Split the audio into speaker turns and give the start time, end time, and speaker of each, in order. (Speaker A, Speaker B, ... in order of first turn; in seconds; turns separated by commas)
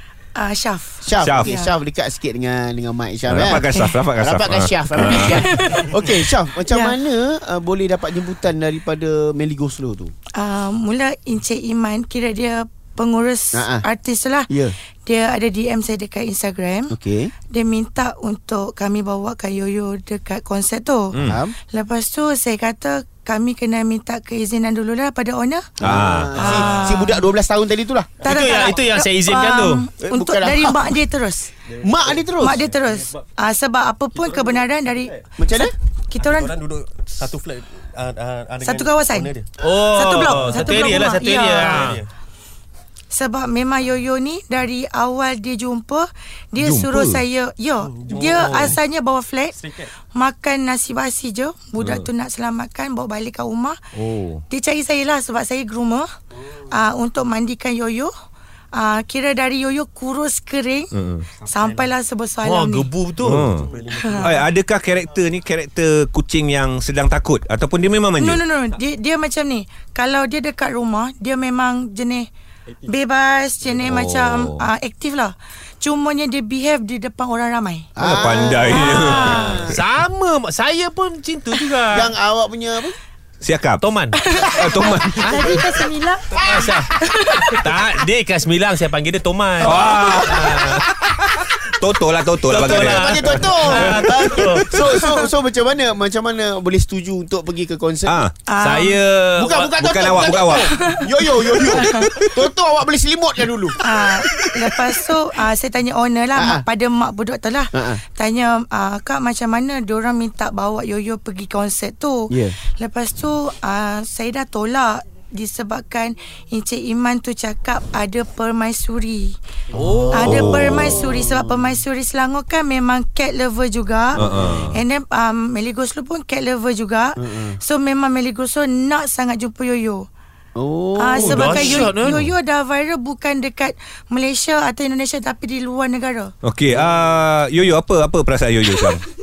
Speaker A: 0.3-1.7, Speaker B: 1.0-10.1, Speaker C: 1.2-1.5, Speaker C: 3.3-5.5, Speaker A: 5.0-6.0, Speaker A: 6.7-7.0, Speaker A: 10.3-14.5, Speaker B: 13.5-13.8, Speaker B: 14.5-14.8, Speaker A: 15.1-17.0, Speaker B: 16.9-17.3, Speaker A: 17.5-25.7, Speaker C: 21.1-21.4, Speaker B: 21.2-21.6, Speaker C: 25.8-26.5, Speaker B: 25.8-28.3, Speaker A: 26.4-27.3, Speaker A: 28.2-31.5, Speaker D: 28.2-29.9, Speaker B: 30.0-30.9, Speaker E: 31.7-32.3, Speaker B: 31.8-32.6, Speaker A: 32.4-36.6, Speaker E: 34.2-34.6, Speaker B: 35.4-35.7, Speaker E: 36.2-39.5, Speaker A: 38.6-41.9, Speaker D: 39.6-42.0, Speaker E: 41.7-42.1, Speaker A: 43.1-49.6, Speaker C: 46.6-47.2, Speaker E: 48.0-48.7, Speaker A: 50.1-53.8, Speaker C: 51.8-52.1, Speaker C: 54.0-54.4, Speaker A: 54.5-56.1, Speaker A: 56.7-58.1, Speaker A: 58.7-62.9, Speaker C: 60.9-61.3, Speaker D: 62.4-63.5, Speaker C: 63.2-68.4, Speaker E: 63.5-64.4, Speaker A: 63.9-64.4, Speaker A: 68.2-72.3, Speaker A: 72.8-79.6, Speaker C: 73.9-74.6, Speaker B: 78.0-79.8, Speaker C: 78.0-79.8, Speaker D: 79.0-82.1, Speaker B: 81.9-83.0, Speaker C: 83.4-83.8, Speaker D: 83.8-84.2, Speaker A: 84.2-87.6, Speaker C: 84.5-85.5, Speaker B: 86.3-86.8, Speaker D: 86.5-90.8, Speaker C: 89.6-95.0, Speaker B: 89.7-90.5, Speaker D: 92.5-94.8, Speaker B: 92.5-98.3, Speaker C: 98.1-98.3, Speaker A: 98.5-99.0, Speaker D: 98.6-100.4, Speaker B: 99.4-103.8, Speaker C: 99.8-100.7, Speaker A: 100.7-102.0, Speaker C: 102.0-102.4, Speaker A: 103.8-119.4, Speaker B: 106.3-106.6, Speaker B: 107.7-108.0, Speaker B: 112.3-112.5, Speaker D: 119.7-120.3, Speaker B: 119.8-121.8, Speaker A: 120.1-130.1, Speaker C: 120.3-121.0, Speaker B: 124.2-124.7, Speaker C: 124.2-124.8, Speaker B: 127.2-127.6, Speaker B: 130.6-132.0, Speaker A: 131.0-136.3, Speaker D: 131.1-132.2, Speaker C: 132.0-132.3, Speaker C: 136.4-139.0